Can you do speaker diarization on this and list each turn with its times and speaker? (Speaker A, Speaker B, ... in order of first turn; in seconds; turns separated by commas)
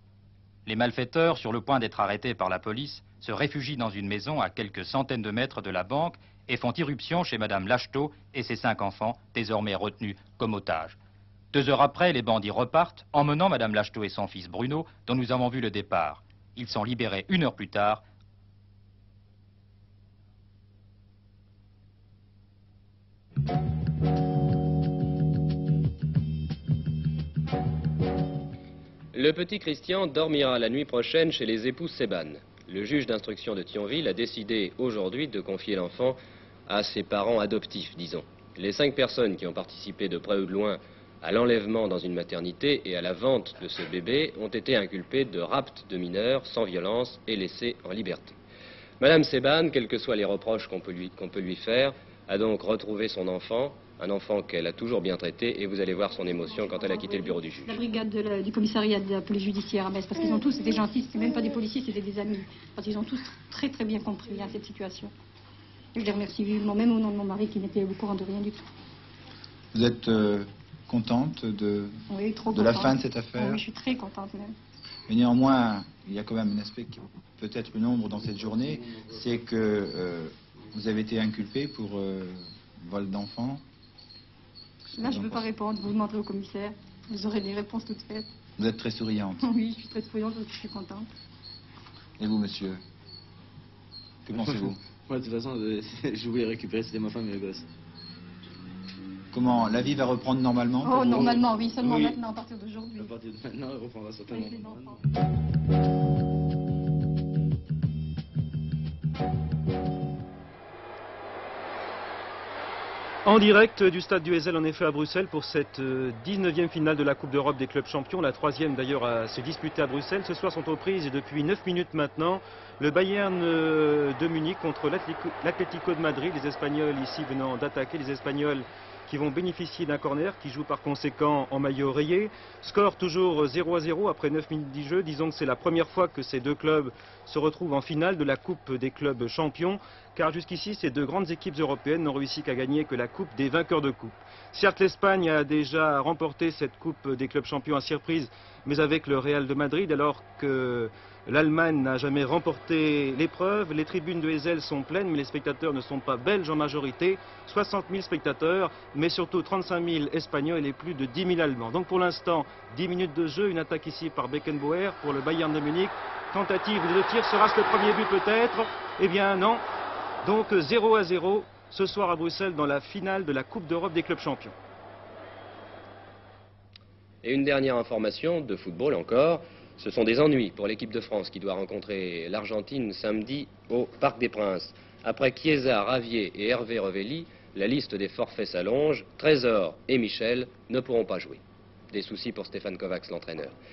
Speaker A: 0.7-11.0, Speaker A: 11.5-18.0, Speaker B: 29.1-48.3, Speaker B: 49.0-57.8, Speaker C: 57.6-65.1, Speaker C: 65.9-68.7, Speaker D: 69.7-73.6, Speaker C: 72.1-74.5, Speaker D: 75.1-83.6, Speaker C: 84.9-88.3, Speaker D: 85.0-85.5, Speaker D: 88.6-89.4, Speaker C: 89.4-91.1, Speaker D: 92.2-92.8, Speaker D: 94.2-94.8, Speaker E: 94.3-97.7, Speaker D: 99.3-102.2, Speaker C: 100.8-103.2, Speaker E: 101.8-102.2, Speaker E: 103.0-105.0, Speaker C: 104.3-105.0, Speaker F: 113.2-169.6, Speaker F: 170.2-174.5, Speaker B: 177.2-193.5